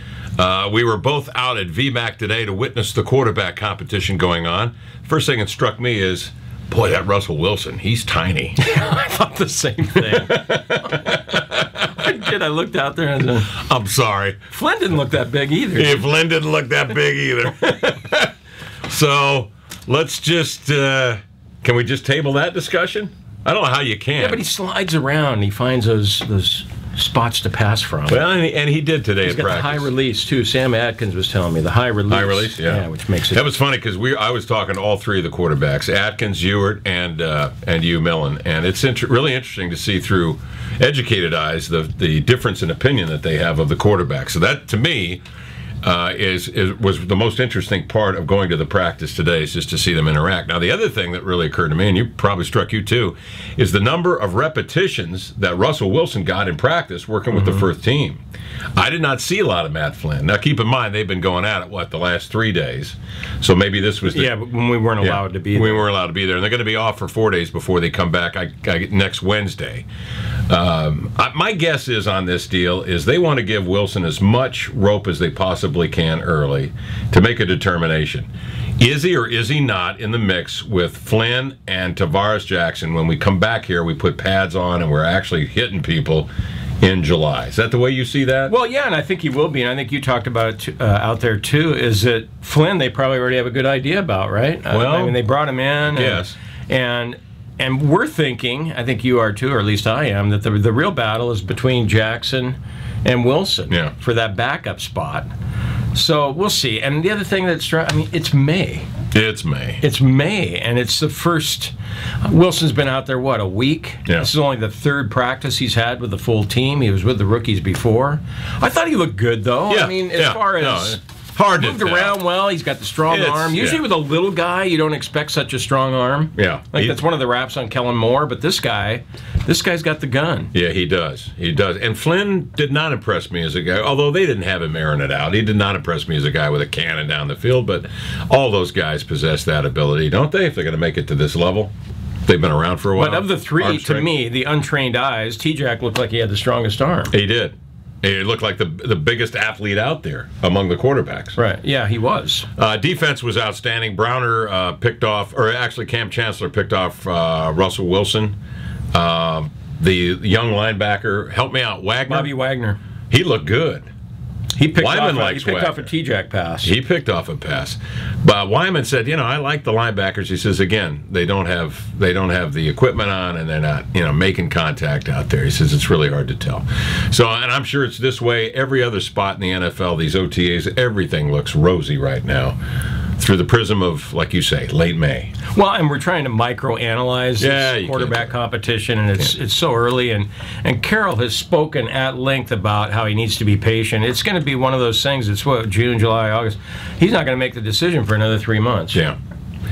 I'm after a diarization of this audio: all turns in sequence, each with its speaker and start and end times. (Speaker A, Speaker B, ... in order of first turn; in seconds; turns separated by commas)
Speaker A: 0.4-8.6, Speaker B: 8.6-13.5, Speaker A: 10.1-11.8, Speaker A: 13.5-14.5, Speaker B: 14.5-16.1, Speaker A: 15.7-18.3, Speaker A: 18.9-24.4, Speaker B: 24.2-28.2, Speaker A: 28.1-29.9, Speaker B: 29.2-33.4, Speaker A: 32.1-45.2, Speaker A: 45.8-58.2, Speaker B: 57.3-57.7, Speaker A: 58.8-64.3, Speaker B: 64.1-65.9, Speaker A: 65.0-69.8, Speaker A: 70.5-78.3, Speaker A: 78.8-86.3, Speaker A: 86.8-88.5, Speaker B: 88.5-105.3, Speaker A: 94.7-95.2, Speaker A: 95.9-96.3, Speaker B: 105.9-108.9, Speaker A: 109.1-109.8, Speaker B: 109.8-121.0, Speaker A: 119.7-122.2, Speaker B: 121.5-130.5, Speaker A: 123.1-123.8, Speaker A: 126.3-127.0, Speaker A: 130.5-141.7, Speaker A: 142.2-144.1, Speaker B: 142.9-147.1, Speaker A: 147.1-151.4, Speaker B: 151.3-152.5, Speaker A: 152.6-158.3, Speaker A: 158.9-162.3, Speaker B: 162.1-162.8, Speaker A: 163.1-163.9, Speaker B: 164.6-166.7, Speaker A: 164.7-165.9, Speaker A: 166.6-182.6, Speaker A: 183.2-185.4, Speaker B: 185.5-199.0, Speaker A: 187.4-188.3